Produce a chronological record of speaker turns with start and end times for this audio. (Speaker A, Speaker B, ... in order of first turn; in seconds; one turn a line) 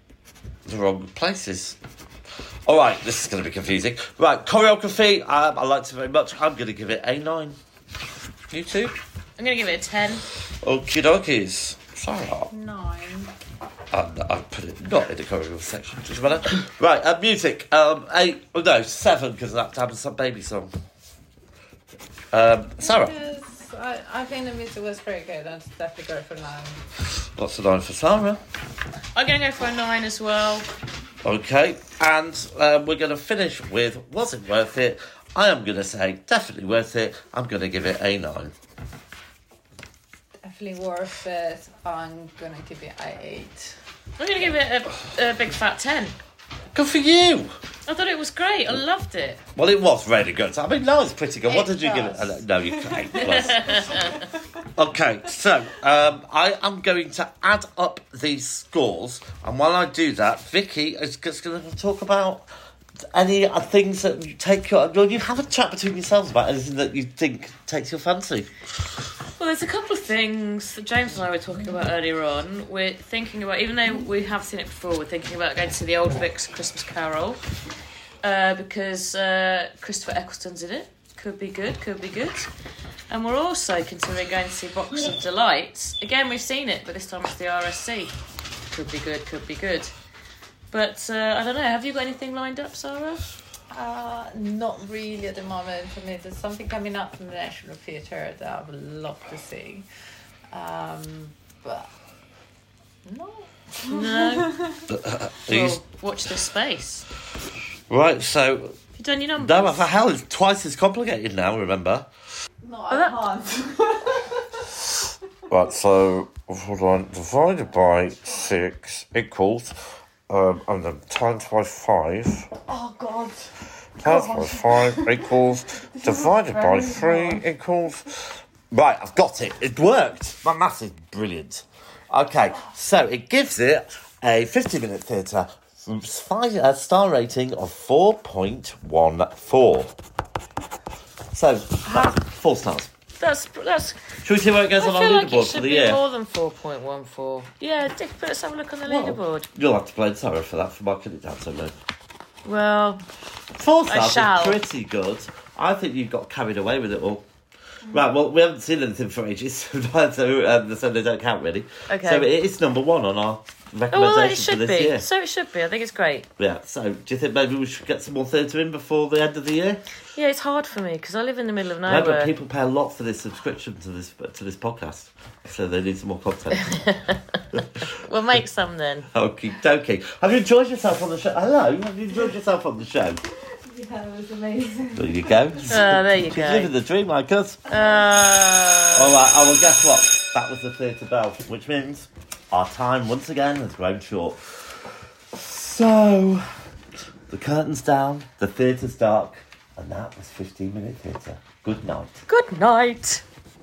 Speaker A: 0.7-1.8
Speaker A: 2.6-7.6
Speaker A: 8.5-8.9
Speaker B: 9.4-10.2
Speaker A: 10.6-12.5
Speaker C: 12.5-13.3
Speaker A: 13.9-20.7
Speaker A: 22.3-23.1
Speaker C: 22.8-26.8
Speaker A: 27.2-28.4
Speaker B: 29.1-30.7
Speaker A: 31.2-38.5
Speaker C: 40.4-43.8
Speaker B: 44.2-46.1
Speaker A: 46.7-47.5
Speaker B: 47.9-49.4
Speaker A: 49.5-53.8
Speaker C: 51.5-54.3
Speaker B: 53.2-54.2
Speaker A: 54.7-62.5
Speaker A: 63.1-68.5
Speaker B: 69.4-77.4
Speaker B: 78.2-82.5
Speaker B: 83.1-88.2
Speaker B: 88.7-89.9
Speaker B: 90.7-93.2
Speaker C: 93.7-99.8
Speaker C: 100.5-101.9
Speaker C: 103.0-104.8
Speaker B: 103.9-104.6
Speaker A: 104.9-105.8
Speaker B: 105.5-107.0
Speaker A: 107.9-108.8
Speaker B: 109.0-109.9
Speaker A: 109.4-112.0
Speaker C: 112.6-114.8
Speaker B: 112.9-113.2
Speaker A: 115.5-119.7
Speaker A: 120.3-122.5
Speaker C: 122.6-127.4
Speaker A: 124.0-139.9
Speaker A: 141.3-142.9
Speaker B: 143.2-144.0
Speaker A: 144.2-146.0
Speaker B: 144.8-149.5
Speaker A: 148.8-151.7
Speaker B: 152.4-153.0
Speaker A: 153.6-157.2
Speaker B: 153.9-154.6
Speaker A: 157.8-165.1
Speaker B: 161.9-162.3
Speaker B: 163.9-166.3
Speaker A: 166.4-169.8
Speaker B: 170.1-172.3
Speaker A: 171.8-176.8
Speaker B: 176.6-179.1
Speaker A: 177.6-177.8
Speaker A: 179.1-183.2
Speaker C: 183.6-186.0
Speaker A: 184.9-187.6
Speaker B: 185.7-186.7
Speaker B: 187.7-189.2
Speaker A: 188.9-194.8
Speaker A: 195.3-196.4
Speaker A: 197.3-202.2
Speaker B: 202.3-203.2